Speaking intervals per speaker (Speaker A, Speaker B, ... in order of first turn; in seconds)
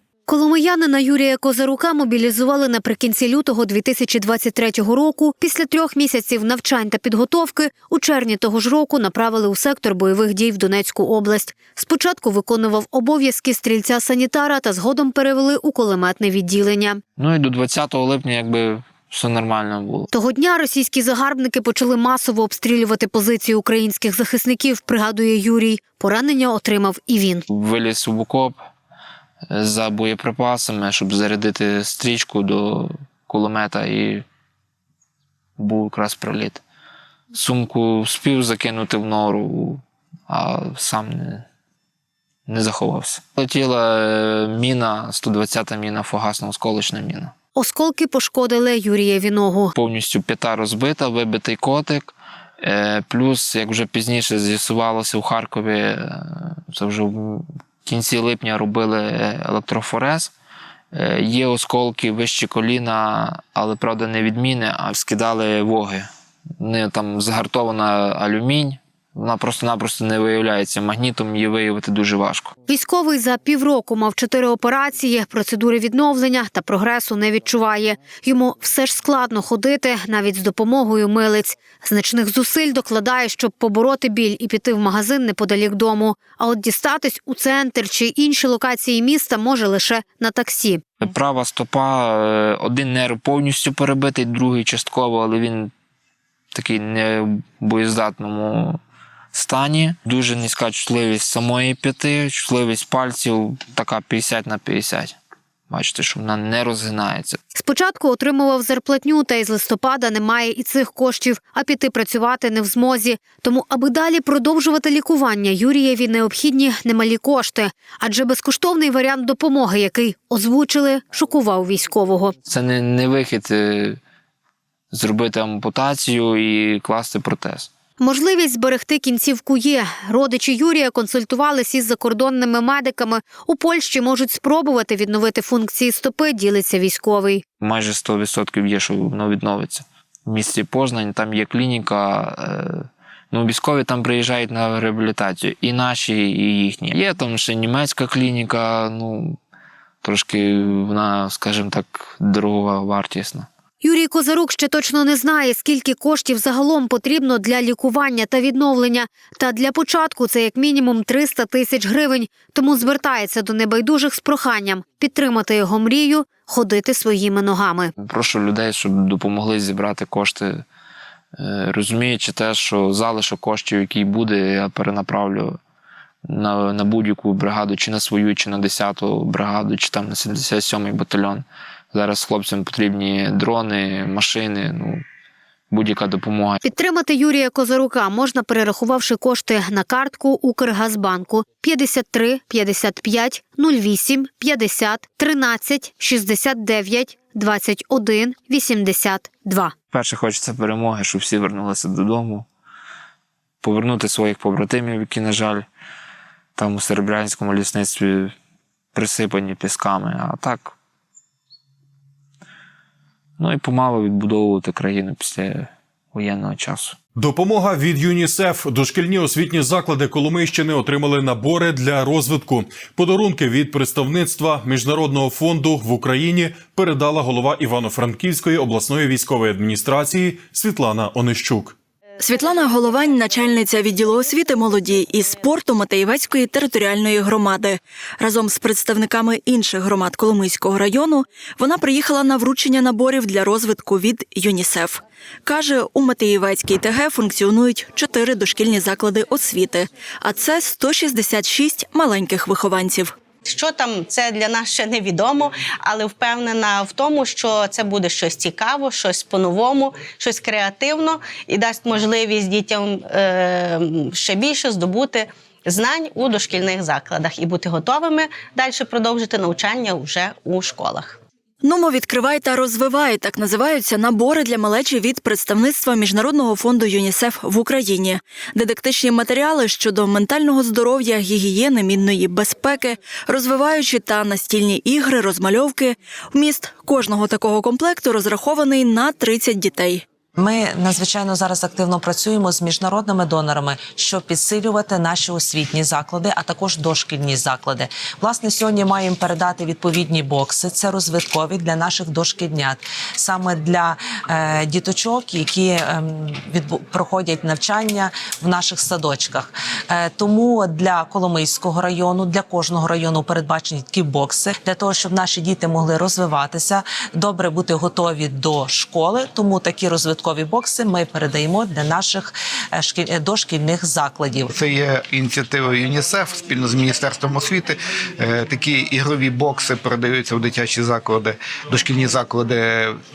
Speaker A: 0.3-17.0, 20.1-27.4, 47.5-49.7, 72.7-90.8, 107.5-122.3, 128.0-137.4, 153.8-167.9, 186.6-199.7
Speaker B: 17.2-20.1, 27.5-28.6, 29.5-34.2, 35.6-36.6, 37.3-41.4, 42.5-47.3, 49.7-60.3, 60.9-66.1, 66.6-72.5, 91.0-95.7, 96.5-98.8, 99.3-105.2, 105.7-107.4, 122.4-124.0, 124.9-127.7, 137.6-149.4, 150.0-153.5, 168.0-170.6, 171.4-175.6, 176.3-185.0, 185.7-186.6, 199.9-202.5, 203.6-205.7, 206.6-208.3, 208.9-210.7, 213.4-217.0
Speaker C: 217.2-231.8
Speaker D: 232.2-253.1, 271.6-290.0
Speaker E: 253.4-271.2
Speaker F: 290.4-324.5
Speaker G: 324.5-332.9